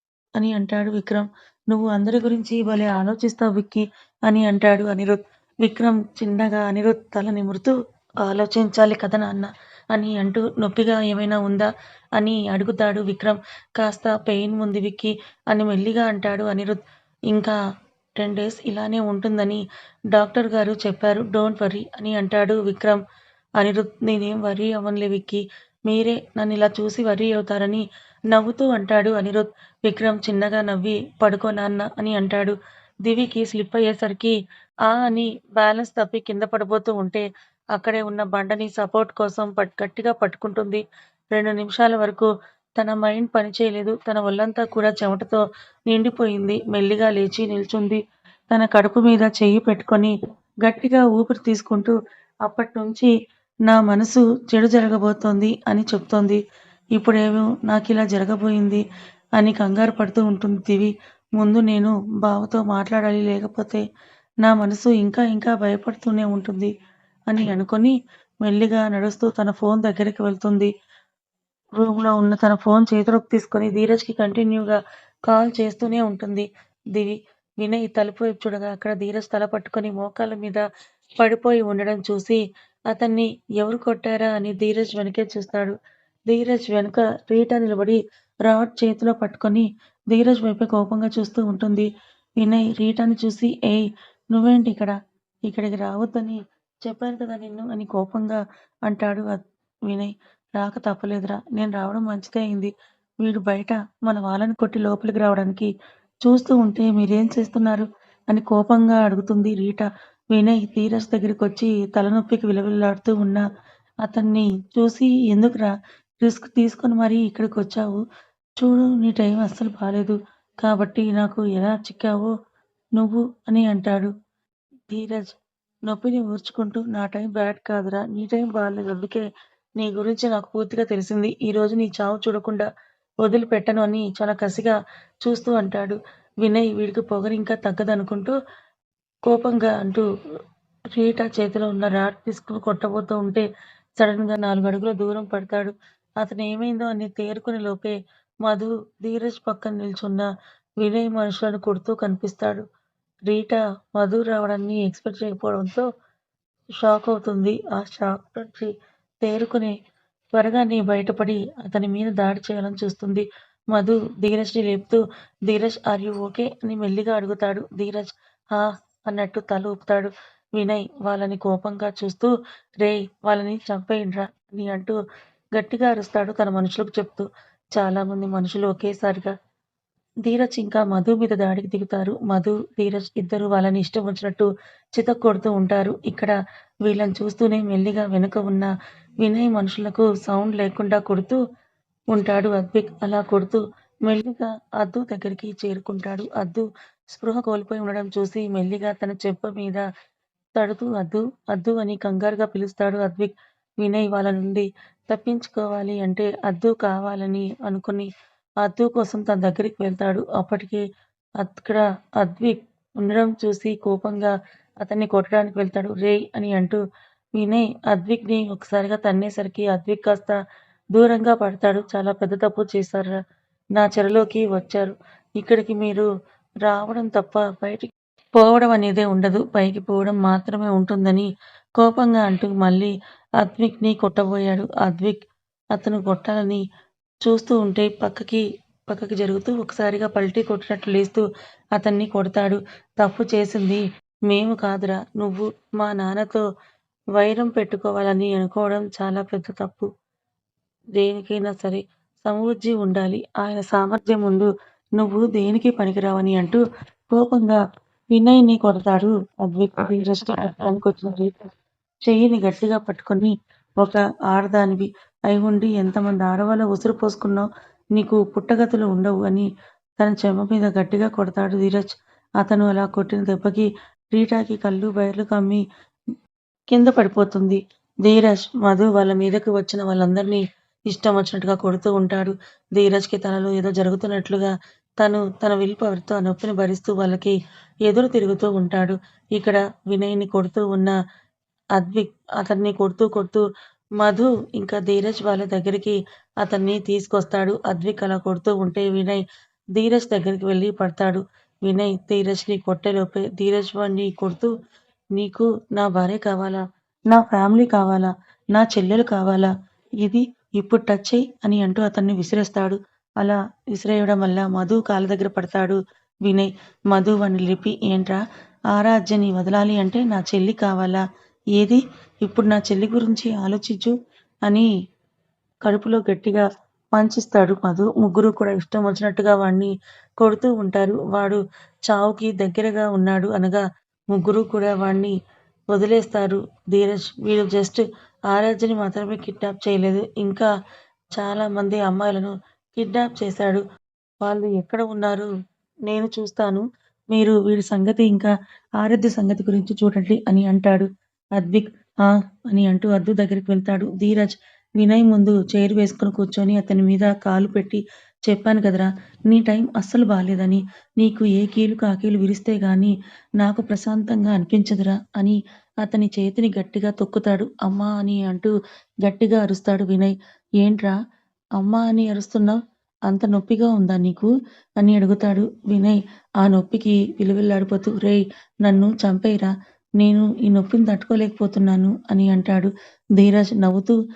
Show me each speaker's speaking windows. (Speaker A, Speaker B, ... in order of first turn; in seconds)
Speaker A: 0.4-16.8, 17.3-17.6, 18.2-23.0, 23.6-40.8, 41.3-53.1, 53.7-56.4, 57.0-58.8, 59.4-63.8, 64.4-66.7, 67.3-70.7, 71.8-80.6, 81.2-82.4, 82.9-85.8, 86.3-95.0, 95.5-102.7, 103.2-105.7, 106.2-113.4, 114.0-118.0, 118.6-122.3, 123.0-124.1, 124.9-129.2, 129.8-132.7, 133.2-138.3, 139.3-140.1, 140.9-143.5, 144.0-150.3, 150.8-152.7, 153.3-155.9, 156.8-159.7, 160.3-175.0, 175.6-179.3, 180.2-186.3, 186.8-191.4, 192.1-199.8, 200.6-208.1, 208.6-210.8, 211.4-216.8, 217.4-220.3, 220.9-223.2, 223.8-226.1, 226.6-231.3, 231.8-236.6, 237.2-241.2, 241.8-246.4, 247.2-249.9, 250.9-257.6, 258.1-261.5, 262.0-275.6, 276.7-290.9, 291.7-293.4, 294.0-299.2, 299.7-304.5, 305.1-321.0, 321.6-323.9, 325.6-333.6, 334.1-335.1, 335.7-340.5, 341.1-343.6, 344.2-345.3, 345.9-368.5, 369.0-370.9, 371.6-384.0